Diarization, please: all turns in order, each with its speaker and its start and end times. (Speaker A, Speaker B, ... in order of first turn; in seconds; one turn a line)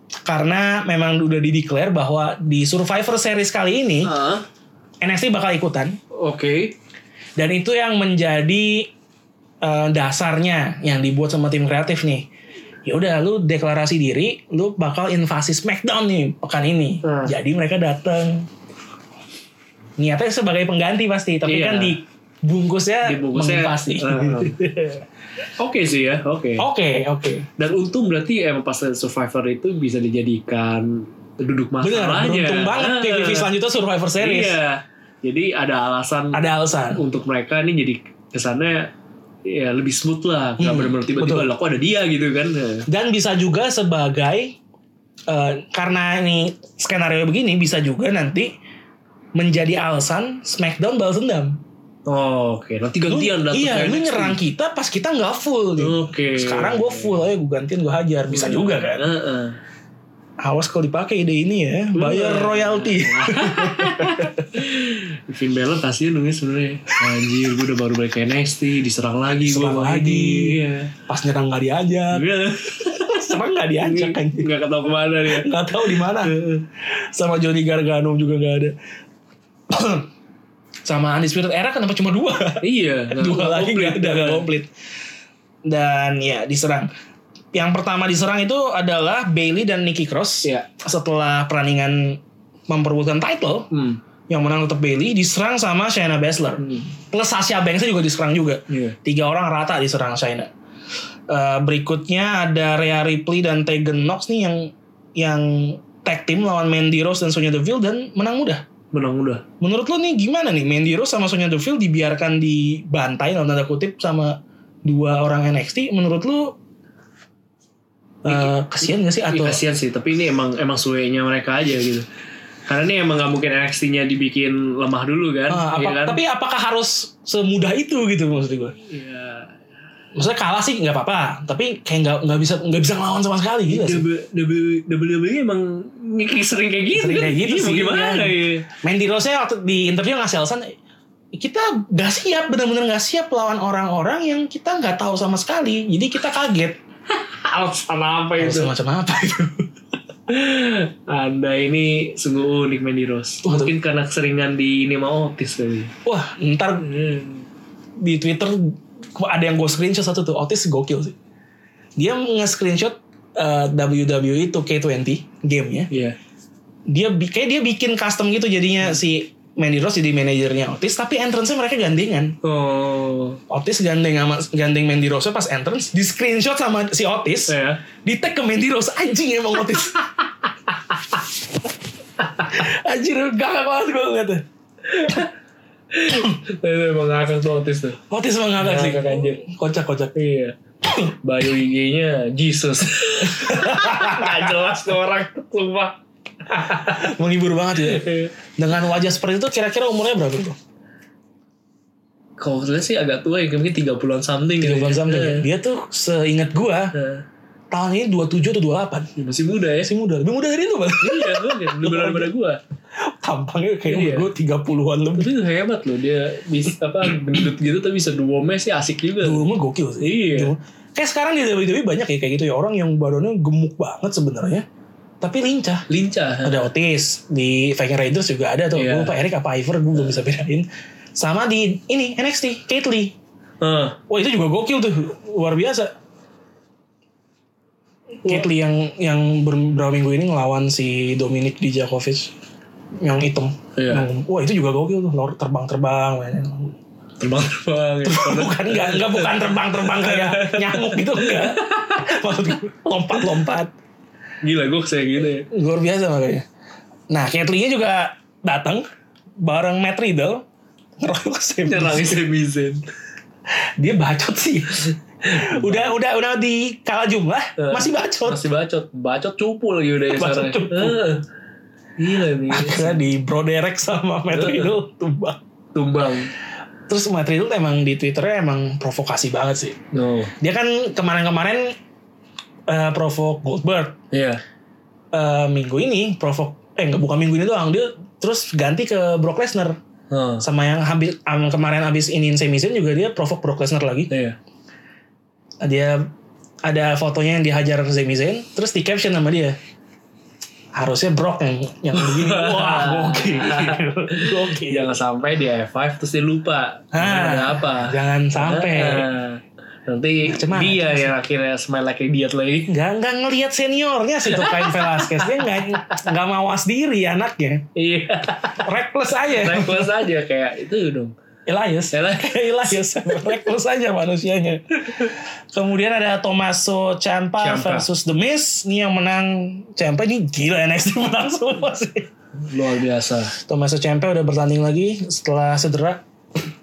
Speaker A: 0.2-4.1
Speaker B: 4.0-4.4
Speaker A: 5.0-6.0
Speaker B: 6.2-6.7
Speaker A: 7.4-8.9
Speaker A: 9.6-12.3
Speaker A: 12.8-18.5
Speaker B: 17.0-17.4
Speaker A: 20.0-24.9
Speaker B: 21.4-22.0
Speaker B: 23.1-25.0
Speaker B: 25.6-26.7
Speaker A: 26.6-27.5
Speaker B: 27.6-33.5
Speaker A: 31.8-34.6
Speaker B: 34.2-38.9
Speaker A: 36.3-37.0
Speaker B: 39.5-42.9
Speaker A: 40.6-41.5
Speaker A: 42.9-44.6
Speaker A: 45.3-48.5
Speaker A: 49.4-51.6
Speaker B: 52.1-54.4
Speaker A: 53.1-59.0
Speaker B: 55.8-57.2
Speaker B: 58.3-59.6
Speaker A: 60.4-64.6
Speaker B: 61.9-71.0
Speaker A: 69.3-72.3
Speaker B: 72.1-76.7
Speaker A: 72.8-74.5
Speaker A: 75.2-76.3
Speaker A: 77.0-78.8
Speaker A: 79.7-80.1
Speaker A: 80.9-84.7
Speaker B: 82.6-84.5
Speaker A: 85.7-86.9
Speaker A: 87.5-93.7
Speaker B: 93.7-94.0
Speaker A: 94.3-100.5
Speaker B: 96.6-96.9
Speaker B: 98.7-99.0
Speaker A: 101.3-108.6
Speaker B: 108.9-109.4
Speaker A: 109.6-116.6
Speaker A: 118.2-119.6
Speaker B: 118.3-118.5
Speaker B: 119.3-122.1
Speaker B: 122.7-126.2
Speaker A: 125.5-128.8
Speaker B: 128.8-129.5
Speaker A: 130.1-134.1
Speaker B: 133.7-138.7
Speaker A: 136.9-140.8
Speaker A: 141.3-146.8
Speaker B: 147.1-148.7
Speaker A: 148.4-149.7
Speaker B: 150.3-155.9
Speaker A: 153.4-153.7
Speaker A: 156.1-156.9
Speaker B: 156.8-157.5
Speaker A: 158.0-161.2
Speaker A: 162.0-165.9
Speaker B: 165.9-166.2
Speaker A: 166.9-172.4
Speaker B: 172.4-173.4
Speaker A: 173.5-180.1
Speaker B: 177.5-177.8
Speaker A: 182.5-184.4
Speaker B: 184.9-185.3
Speaker B: 185.9-188.0
Speaker A: 188.1-190.2
Speaker B: 188.6-189.4
Speaker B: 190.2-190.6
Speaker B: 191.2-197.1
Speaker A: 193.2-194.7
Speaker A: 196.7-200.6
Speaker B: 197.8-198.3
Speaker B: 202.4-205.5
Speaker A: 204.6-206.9
Speaker B: 206.9-207.2
Speaker A: 207.7-209.1
Speaker B: 209.2-209.9
Speaker A: 209.8-212.3
Speaker B: 211.0-212.6
Speaker A: 213.0-215.3
Speaker B: 213.9-214.3
Speaker B: 215.2-219.5
Speaker A: 219.2-224.7
Speaker B: 220.0-220.5
Speaker A: 225.2-225.8
Speaker B: 225.9-226.7
Speaker A: 226.4-233.1
Speaker B: 228.7-229.2
Speaker B: 233.6-234.0
Speaker A: 234.1-235.9
Speaker A: 238.2-242.3
Speaker A: 243.0-246.8
Speaker B: 243.8-244.1
Speaker B: 247.2-252.1
Speaker A: 248.0-253.7
Speaker B: 254.4-255.5
Speaker A: 255.5-256.5
Speaker A: 257.1-258.9
Speaker A: 259.4-260.4
Speaker A: 261.0-262.2
Speaker B: 261.7-262.8
Speaker A: 263.8-268.4
Speaker B: 265.3-265.9
Speaker B: 267.6-271.2
Speaker A: 270.1-271.1
Speaker B: 272.0-273.0
Speaker A: 272.5-275.4
Speaker B: 274.3-274.7
Speaker B: 275.7-276.3
Speaker A: 276.9-279.8
Speaker B: 279.9-280.3
Speaker A: 280.4-281.7
Speaker A: 282.7-284.0
Speaker B: 284.1-284.4
Speaker A: 285.1-289.8
Speaker B: 290.1-290.5
Speaker A: 290.4-294.1
Speaker B: 294.1-294.4
Speaker A: 295.6-296.1
Speaker A: 296.6-299.6
Speaker A: 300.7-305.0
Speaker B: 301.9-312.7
Speaker A: 306.9-309.1
Speaker A: 310.3-311.1
Speaker A: 312.7-317.7
Speaker B: 314.3-316.0
Speaker B: 317.8-318.7
Speaker A: 318.6-320.0
Speaker B: 319.3-321.1
Speaker A: 321.5-332.1
Speaker B: 321.9-323.3
Speaker B: 327.4-327.9
Speaker B: 332.4-333.4
Speaker A: 333.4-336.0